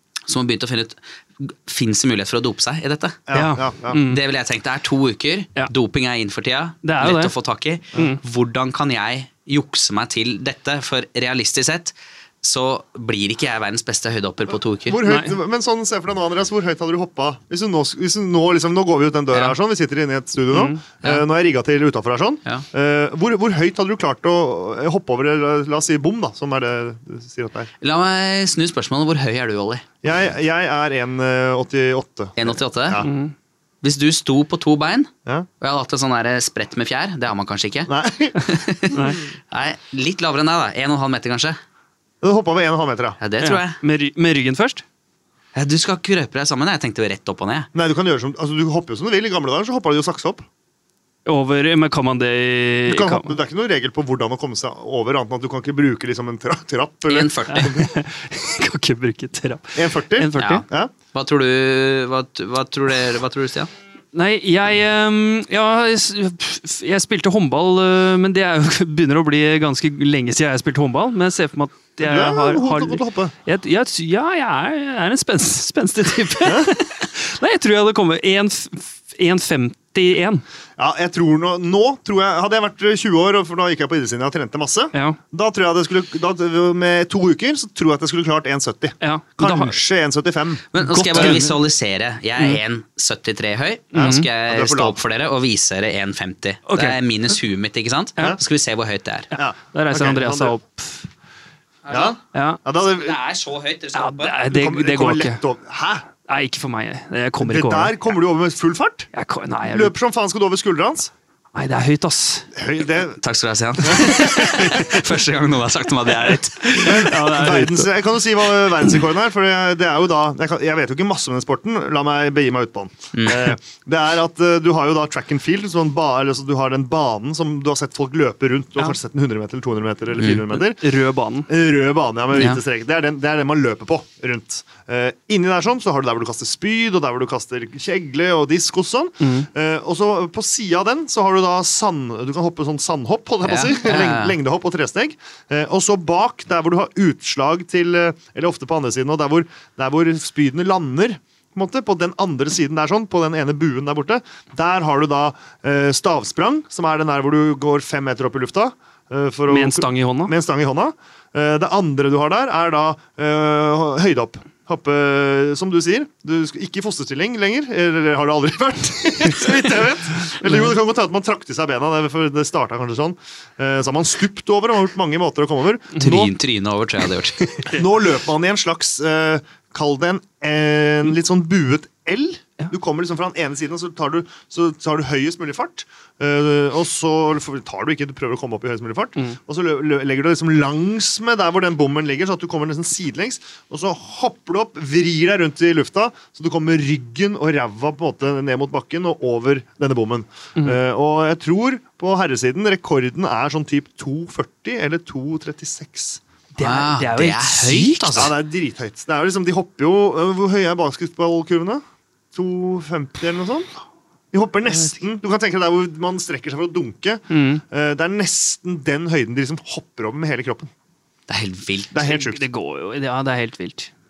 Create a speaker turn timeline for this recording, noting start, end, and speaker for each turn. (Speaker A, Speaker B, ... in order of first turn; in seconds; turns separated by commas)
Speaker A: 0.3-3.2, Speaker B: 3.3-4.0, Speaker C: 3.3-4.2, Speaker A: 4.0-15.0, Speaker C: 6.8-7.3, Speaker C: 7.9-8.2, Speaker B: 14.9-27.7, Speaker C: 15.1-15.4, Speaker C: 20.5-20.8, Speaker A: 27.8-29.8, Speaker B: 30.0-33.1, Speaker A: 32.4-33.0, Speaker C: 33.0-33.3, Speaker A: 33.8-35.1, Speaker A: 35.6-41.6, Speaker B: 37.9-39.1, Speaker C: 38.9-39.2, Speaker B: 42.2-43.2, Speaker A: 43.2-43.8, Speaker C: 43.4-44.8, Speaker A: 45.5-47.7, Speaker B: 47.7-50.5, Speaker C: 51.3-53.4, Speaker B: 52.9-57.9, Speaker A: 57.1-57.8, Speaker C: 57.5-60.7, Speaker B: 59.8-60.9, Speaker A: 60.4-63.7, Speaker C: 64.1-80.4, Speaker B: 72.0-73.3, Speaker B: 76.4-76.8, Speaker B: 80.8-91.5, Speaker C: 84.9-85.2, Speaker C: 89.0-89.8, Speaker A: 90.7-99.3, Speaker C: 90.8-91.6, Speaker B: 93.9-95.0, Speaker C: 94.0-94.3, Speaker C: 96.7-97.0, Speaker C: 99.3-101.1, Speaker B: 99.3-100.6, Speaker A: 101.8-102.2, Speaker B: 101.9-103.2, Speaker C: 102.3-102.6, Speaker A: 102.9-104.4, Speaker C: 103.9-105.4, Speaker B: 104.5-106.1, Speaker C: 106.2-108.2, Speaker B: 107.4-109.1, Speaker C: 109.1-110.0, Speaker B: 109.7-111.1, Speaker C: 111.6-112.5, Speaker B: 112.5-113.2, Speaker A: 113.2-117.0, Speaker B: 113.8-114.7, Speaker C: 116.7-118.0, Speaker B: 116.8-130.8, Speaker A: 123.1-123.5, Speaker A: 130.2-130.4, Speaker C: 130.5-131.5, Speaker B: 131.5-176.3, Speaker A: 132.3-132.6, Speaker C: 139.2-139.5, Speaker A: 143.4-144.4, Speaker C: 159.5-160.3, Speaker C: 169.5-169.8, Speaker C: 170.4-170.7, Speaker A: 176.0-177.7, Speaker B: 177.7-206.2, Speaker C: 200.6-200.8, Speaker C: 206.6-208.3, Speaker A: 206.6-208.3, Speaker B: 208.1-211.8, Speaker B: 212.3-213.7, Speaker B: 214.3-220.7, Speaker C: 217.3-217.6, Speaker A: 221.3-222.0, Speaker B: 221.9-222.4, Speaker C: 222.0-223.9